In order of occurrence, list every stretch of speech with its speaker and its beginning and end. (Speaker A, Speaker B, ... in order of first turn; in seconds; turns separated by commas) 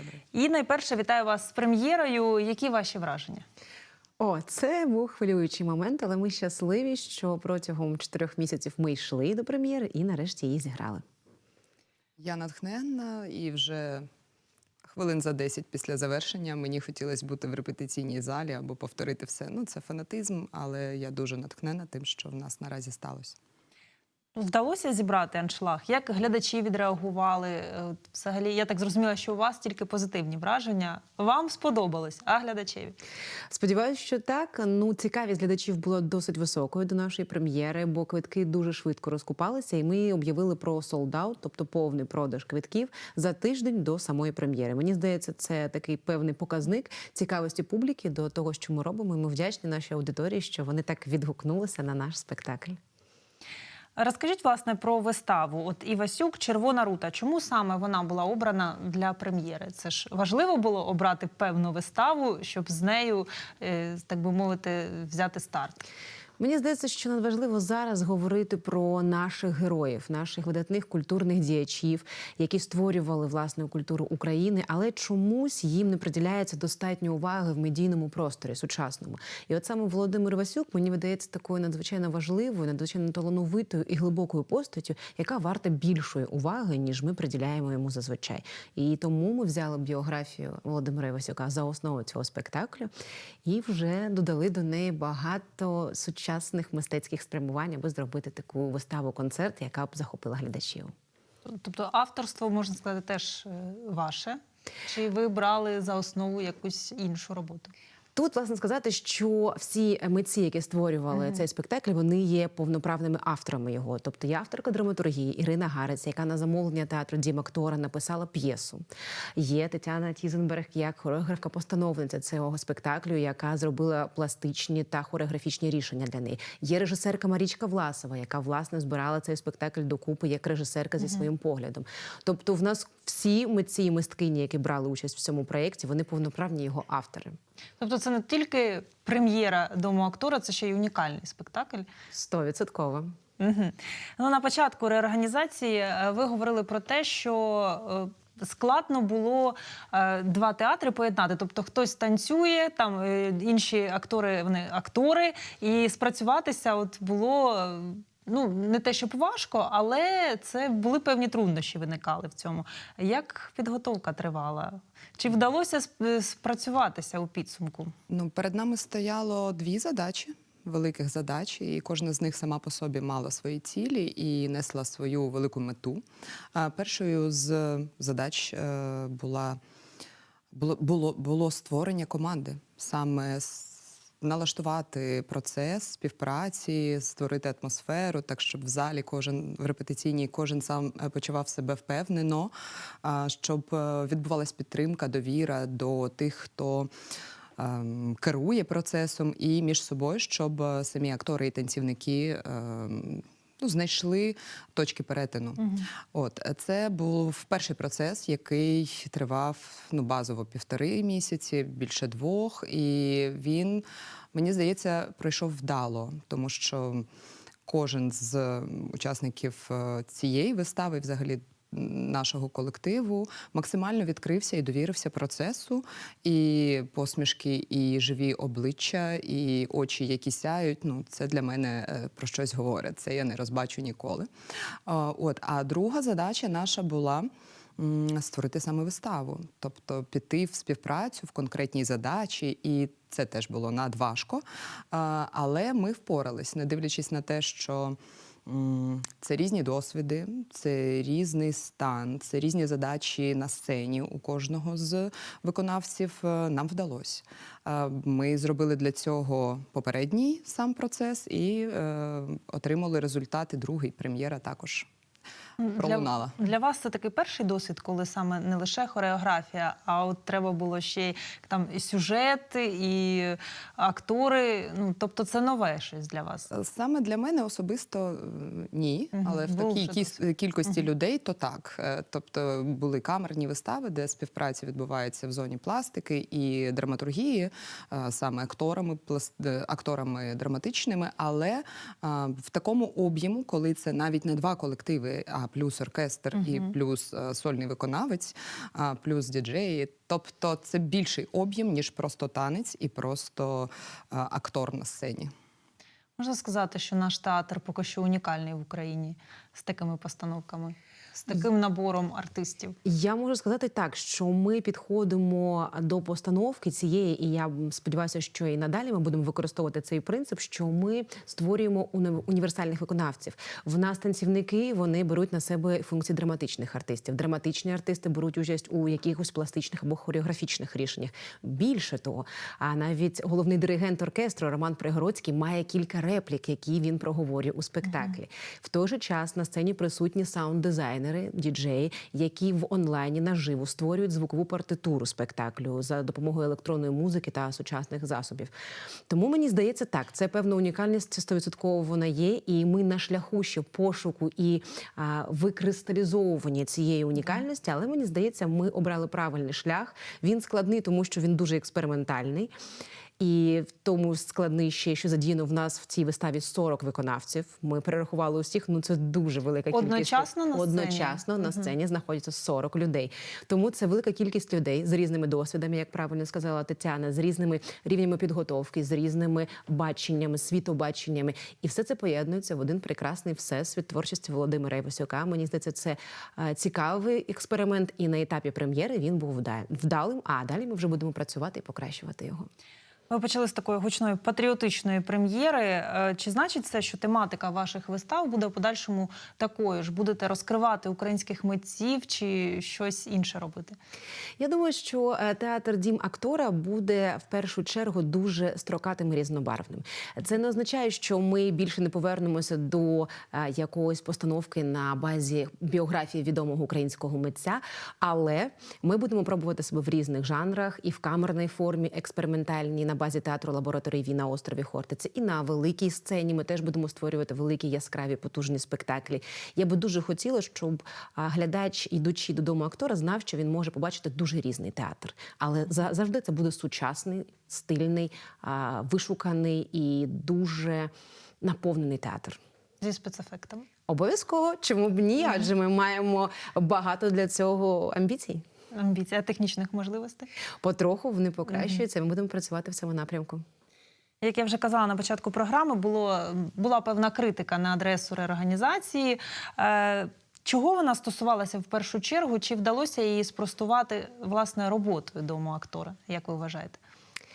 Speaker A: 0.3-3.4, Speaker B: 4.2-11.0, Speaker C: 12.2-14.1, Speaker C: 14.8-23.4, Speaker A: 24.4-33.0, Speaker B: 33.5-52.8, Speaker A: 54.0-65.8, Speaker B: 66.4-92.9, Speaker B: 93.4-100.9, Speaker A: 101.4-107.7, Speaker B: 108.1-137.4, Speaker A: 137.8-141.9, Speaker B: 142.1-143.2, Speaker A: 143.4-167.9, Speaker C: 168.1-176.0, Speaker C: 176.5-179.6, Speaker C: 180.5-196.9, Speaker C: 197.6-217.1, Speaker A: 205.6-205.9, Speaker C: 217.7-234.3, Speaker C: 234.8-264.9, Speaker A: 265.6-276.5, Speaker C: 265.8-266.4, Speaker C: 276.5-305.3, Speaker A: 279.1-280.1, Speaker A: 296.4-296.7, Speaker A: 306.2-312.8, Speaker B: 312.8-348.5, Speaker B: 349.1-362.5, Speaker B: 363.2-392.5, Speaker A: 369.7-371.7, Speaker A: 393.1-403.8, Speaker B: 404.4-442.4, Speaker A: 442.8-443.7, Speaker B: 443.9-448.4, Speaker A: 448.7-450.3, Speaker B: 450.6-453.4, Speaker A: 454.2-466.8